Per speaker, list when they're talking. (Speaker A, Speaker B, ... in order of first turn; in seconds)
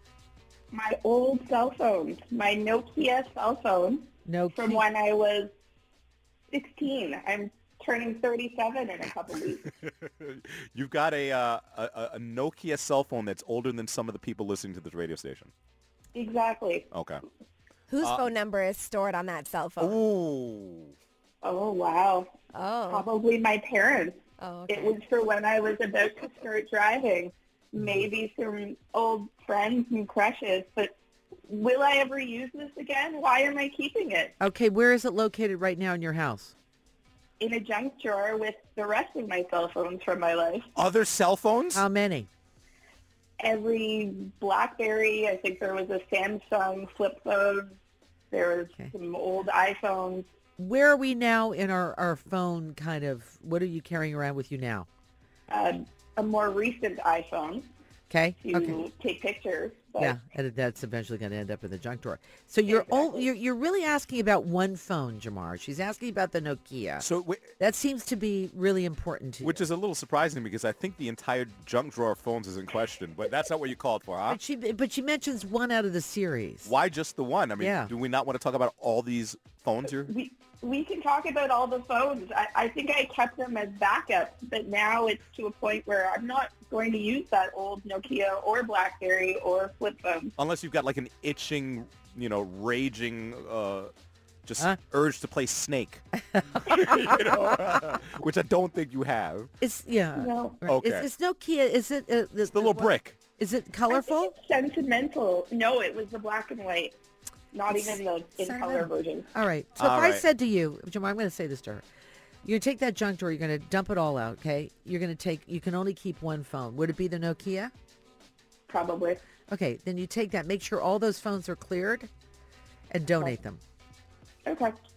Speaker A: 0.7-5.5, 6.5-9.7, 16.1-16.9, 21.4-22.3, 22.9-30.9, 31.5-34.3, 37.4-40.7, 43.4-47.8, 48.3-50.3, 55.5-57.7, 58.4-60.2, 62.7-63.3, 80.0-90.3, 100.1-100.6, 103.9-107.0, 107.5-109.3, 118.7-119.2, 124.5-124.8
Speaker B: 4.3-4.8, 34.4-36.5, 41.7-42.3, 50.6-54.9, 58.1-58.8, 60.0-67.1, 67.6-69.6, 74.3-76.7, 77.6-77.9, 96.3-97.9, 99.6-104.3, 107.7-111.8, 112.4-117.7, 119.5-122.1, 122.9-123.6
Speaker C: 9.7-15.5, 16.9-17.2, 19.8-20.9, 40.7-41.8, 67.0-67.5, 69.4-74.4, 76.6-80.1, 90.4-93.9, 94.4-96.0, 96.6-99.5, 100.7-101.1, 102.5-103.2, 109.8-110.2
Speaker D: 17.9-20.0, 22.5-23.1, 24.4-25.0